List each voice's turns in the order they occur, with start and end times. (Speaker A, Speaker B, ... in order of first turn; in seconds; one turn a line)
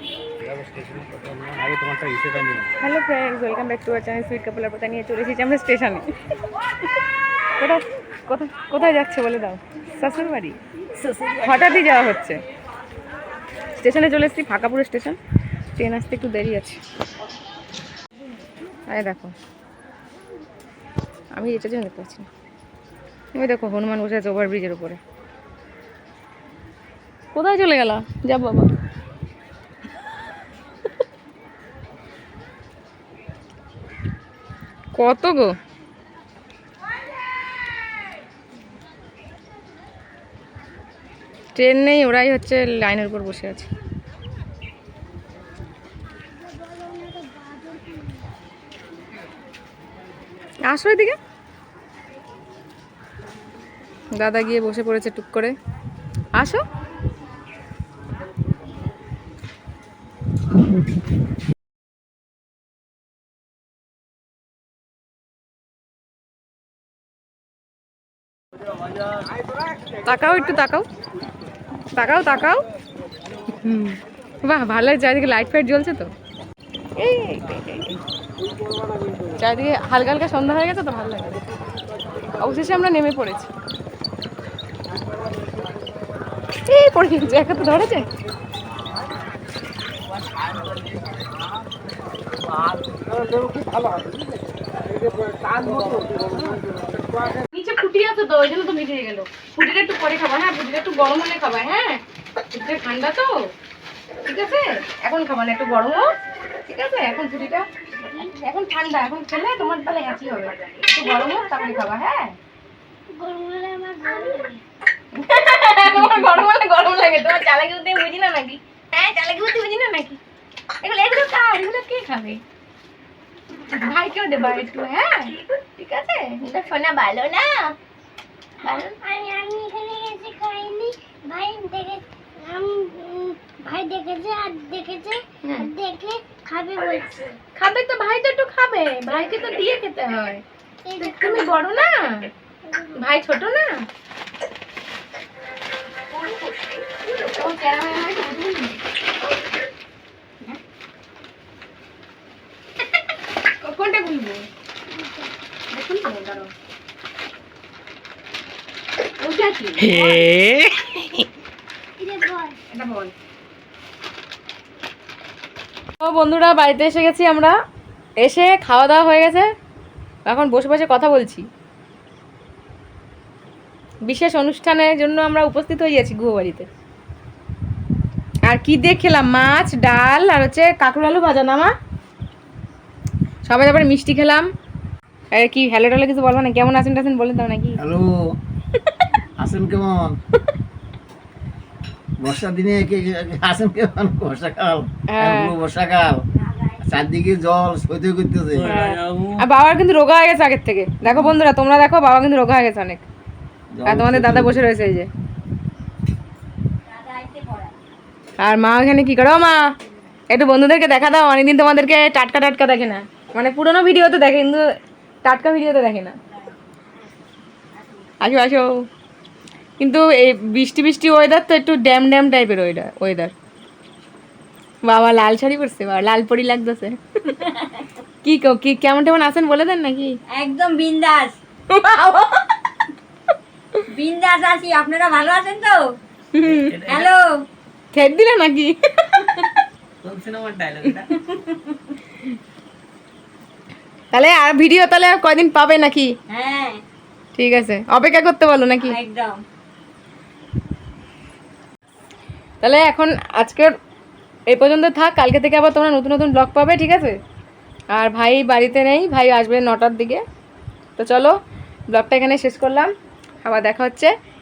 Speaker A: 0.4-2.7
Speaker B: 2.8-6.0
Speaker B: 7.6-10.6
Speaker B: 11.1-12.4
Speaker B: 13.8-15.2
Speaker B: 15.7-16.8
Speaker B: 18.9-19.3
Speaker B: 21.4-22.3
Speaker B: 23.4-25.0
Speaker B: 27.3-28.7
Speaker B: 35.0-35.5
Speaker B: 41.5-43.7
Speaker C: 46.4-48.2
Speaker B: 50.7-51.2
Speaker B: 54.1-55.5
Speaker B: 56.4-56.6
Speaker B: 70.0-70.9
Speaker B: 72.0-72.6
Speaker B: 73.6-76.1
Speaker B: 77.0-78.0
Speaker B: 79.4-81.4
Speaker B: 82.4-83.5
Speaker B: 86.7-88.1
Speaker A: 95.5-96.1
Speaker B: 97.5-102.0
Speaker B: 102.5-103.3
Speaker B: 104.2-106.1
Speaker B: 106.7-112.3
Speaker C: 113.1-114.6
Speaker B: 115.1-120.2
Speaker B: 120.8-122.4
Speaker B: 123.7-127.8
Speaker B: 128.6-129.0
Speaker C: 128.7-137.4
Speaker B: 135.4-135.7
Speaker B: 137.6-140.4
Speaker C: 140.8-141.5
Speaker B: 141.0-142.3
Speaker C: 142.6-142.9
Speaker B: 142.9-143.8
Speaker B: 146.1-148.8
Speaker B: 153.6-154.4
Speaker C: 154.9-155.3
Speaker B: 155.7-156.5
Speaker B: 159.2-160.2
Speaker A: 159.9-160.7
Speaker C: 162.0-162.6
Speaker B: 162.7-163.1
Speaker B: 166.0-167.6
Speaker B: 168.2-169.5
Speaker B: 170.3-171.5
Speaker B: 174.1-176.7
Speaker B: 178.5-181.7
Speaker B: 183.4-184.5
Speaker B: 185.3-187.8
Speaker D: 187.8-188.3
Speaker D: 189.4-190.2
Speaker D: 192.2-196.2
Speaker B: 195.1-195.5
Speaker D: 196.8-198.7
Speaker A: 198.5-199.4
Speaker B: 198.6-203.1
Speaker D: 203.7-204.7
Speaker B: 203.9-205.1
Speaker E: 206.9-207.8
Speaker B: 208.4-209.6
Speaker B: 210.3-214.7
Speaker B: 215.2-216.2
Speaker E: 217.8-218.1
Speaker B: 218.2-218.8
Speaker B: 219.8-223.3
Speaker B: 224.8-227.4
Speaker B: 228.2-230.2
Speaker E: 230.3-231.4
Speaker B: 231.7-232.5
Speaker E: 233.9-235.8
Speaker B: 236.4-236.7
Speaker A: 236.4-237.1
Speaker E: 236.8-237.3
Speaker B: 237.9-239.5
Speaker A: 240.0-241.1
Speaker E: 241.3-241.5
Speaker B: 244.1-246.1
Speaker E: 246.3-246.8
Speaker B: 247.3-249.0
Speaker E: 248.8-249.4
Speaker B: 252.6-253.7
Speaker B: 254.5-257.2
Speaker B: 257.9-260.2
Speaker B: 261.0-261.4
Speaker B: 261.9-262.9
Speaker B: 263.4-264.1